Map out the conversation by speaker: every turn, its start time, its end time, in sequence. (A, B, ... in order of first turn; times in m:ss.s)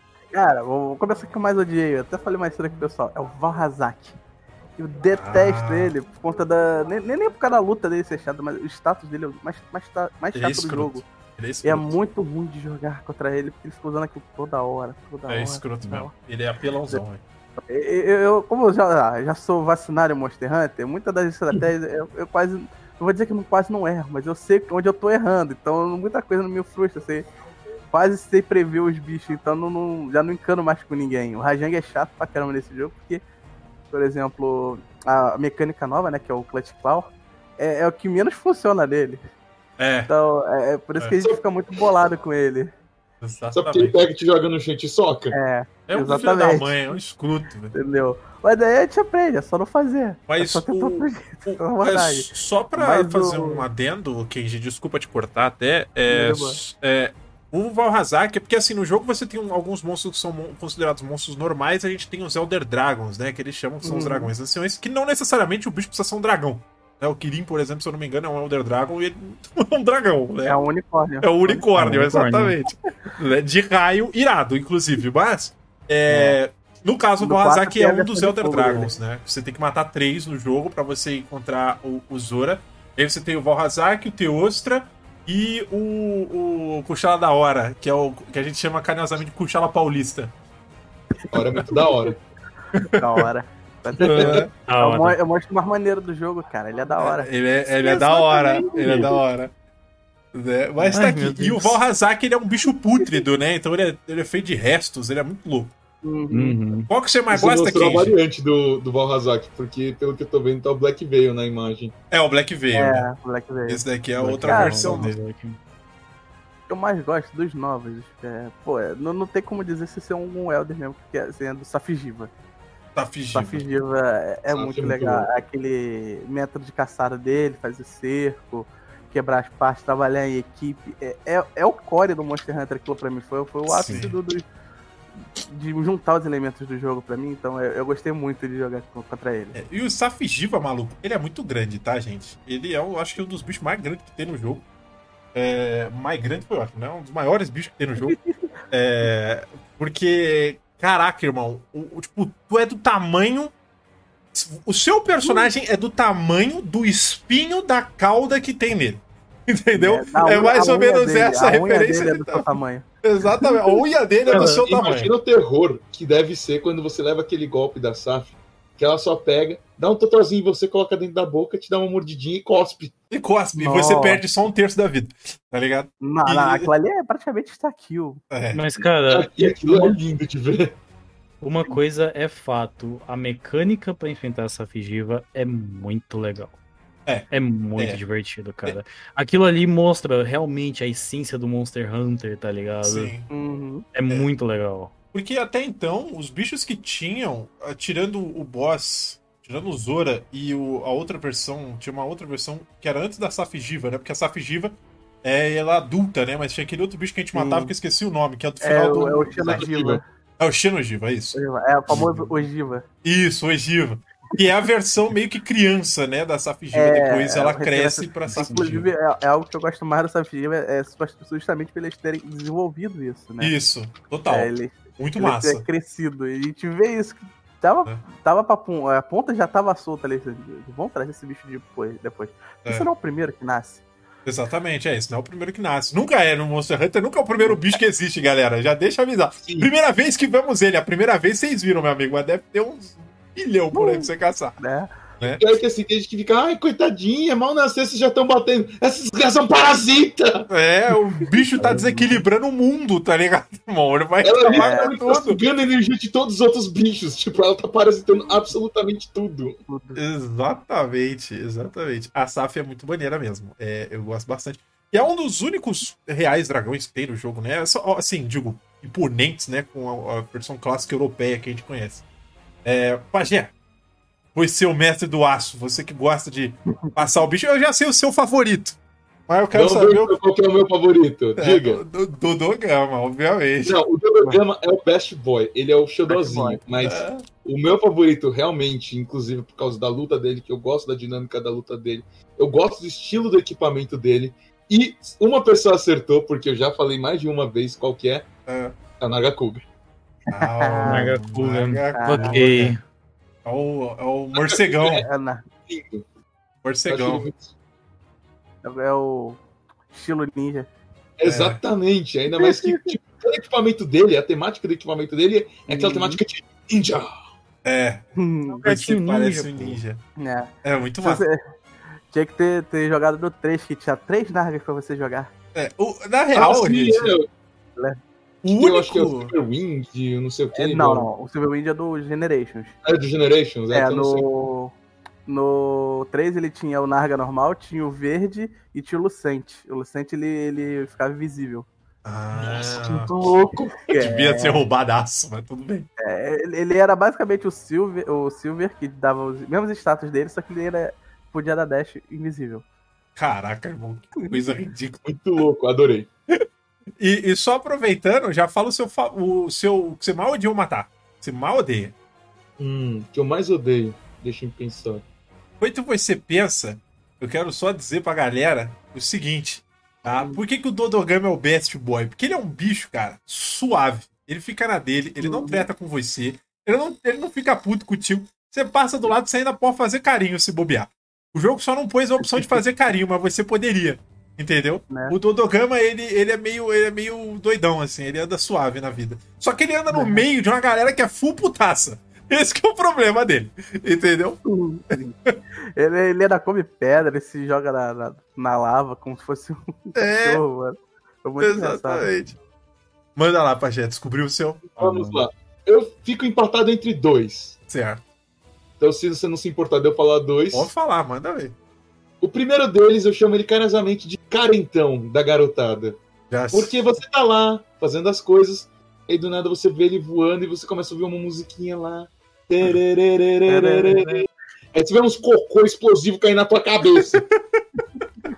0:00.3-0:04.2 A
0:04.8-0:11.0 A
0:05.1-0:05.9 B
0:10.3-0:12.0 B
0:11.6-0:16.1 A
0:15.3-0:17.2 B
0:17.6-0:27.2 A
0:27.9-0:33.2 A
0:33.9-0:39.2 A
0:39.8-0:40.1 B
0:40.1-0:42.7 A
0:43.2-0:44.0 B
0:43.5-0:45.3 C
0:45.3-0:46.8 A
0:45.9-0:47.7 B
0:47.7-0:53.6 A
0:50.3-1:10.6 B
0:56.1-0:56.6 A
1:03.8-1:04.3 A
1:10.4-1:11.7 A
1:11.2-1:30.3 B
1:11.7-1:12.5 D
1:16.1-1:16.4 A
1:17.2-1:18.9 A
1:31.2-1:32.1 A
1:31.3-1:32.2 C
1:32.7-1:33.3 B
1:32.8-1:37.3 A
1:34.0-1:34.5 B
1:34.1-1:34.4 C
1:34.6-1:35.2 D
1:37.0-1:39.5 B
1:37.8-1:39.0 A
1:37.9-1:39.1 C
1:40.3-1:45.7 B
1:40.8-1:41.8 D
1:46.0-1:46.6 A
1:46.3-1:46.9 D
1:46.9-1:48.2 B
1:47.3-1:51.9 C
1:52.1-1:53.1 B
1:52.7-1:53.8 A
1:53.6-1:55.2 B
1:54.2-1:55.6 D
1:54.4-1:55.1 A
1:56.7-2:02.3 A
2:02.9-2:03.6 B
2:03.3-2:14.4 A
2:04.5-2:05.3 C
2:13.7-2:14.1 B
2:15.4-2:19.6 A
2:19.5-2:24.6 B
2:25.3-2:28.2 B
2:28.0-2:28.3 A
2:28.7-2:33.5 B
2:34.3-2:45.1 B
2:39.7-2:42.8 A
2:44.3-2:52.9 C
2:44.3-2:44.7 D
2:53.1-2:56.7 B
2:53.5-2:54.2 A
2:56.0-2:58.2 A
2:58.3-2:58.6 B
2:58.5-3:00.0 D
2:59.1-3:00.8 C
3:01.4-3:06.6 D
3:07.0-3:08.0 B
3:07.3-3:13.1 D
3:12.8-3:13.3 B
3:13.3-3:13.8 A
3:13.9-3:14.9 D
3:15.1-3:29.6 B
3:27.3-3:27.7 A
3:28.6-3:30.0 A
3:29.4-3:30.0 C
3:30.4-3:32.3 B
3:31.3-3:32.8 A
3:33.0-3:38.9 B
3:36.7-3:43.5 A
3:38.3-3:38.7 D
3:43.4-3:45.6 B
3:44.3-3:53.8 A
3:54.2-4:04.6 B
3:59.4-3:59.7 C
4:03.7-4:04.9 A
4:05.3-4:10.5 C
4:10.5-4:15.4 B
4:11.6-4:12.2 D
4:14.2-4:19.6 C
4:14.5-4:14.9 A
4:19.7-4:20.0 A
4:19.9-4:32.0 B
4:32.6-4:33.5 B
4:34.3-4:38.8 B
4:39.3-4:40.2 B
4:39.5-4:41.8 C
4:41.4-4:43.8 B
4:43.6-4:58.3 C
4:46.1-4:46.6 A
4:46.8-4:47.2 B
4:58.4-4:58.7 B
4:59.0-4:59.6 C
5:00.3-5:01.1 A
5:00.3-5:02.7 B
5:00.8-5:02.8 D
5:01.9-5:02.4 A
5:03.4-5:05.0 B
5:04.3-5:05.1 C
5:05.0-5:05.4 A
5:05.7-5:06.0 C
5:06.6-5:07.2 B
5:06.9-5:07.5 C
5:08.6-5:10.7 A
5:11.2-5:17.2 C
5:11.2-5:11.6 B
5:12.4-5:13.0 A
5:15.7-5:16.2 A
5:17.6-5:18.0 B
5:18.2-5:18.6 A
5:18.4-5:19.8 D
5:18.6-5:20.0 B
5:20.2-5:21.4 A
5:20.6-5:21.2 B
5:22.1-5:25.3 A
5:25.5-5:27.2 B
5:26.3-5:27.3 C
5:28.4-5:29.3 B
5:28.5-5:31.1 C
5:30.5-5:32.7 A
5:32.8-5:34.2 C
5:33.7-5:34.7 A
5:35.2-5:41.7 A
5:42.0-5:43.4 B
5:42.3-5:43.8 C
5:43.9-5:44.6 A
5:43.9-5:45.9 B
5:46.0-5:52.6 A
5:53.2-5:55.0 B
5:55.0-5:56.1 C
5:57.0-6:01.9 B
6:02.6-6:05.0 C
6:05.6-6:34.4 B
6:10.1-6:10.4 A
6:15.2-6:15.6 A
6:24.9-6:25.2 A
6:29.9-6:30.2 A
6:34.4-6:35.1 A
6:35.8-6:42.1 A
6:39.9-6:40.4 B
6:41.4-6:42.4 B
6:43.2-6:45.2 B
6:44.8-6:47.6 C
6:47.7-6:48.0 B
6:48.8-6:50.7 C
6:50.5-6:51.5 B
6:52.2-6:56.0 C
6:56.3-6:56.7 B
6:56.5-7:07.2 C
7:03.5-7:04.2 A
7:07.1-7:07.8 B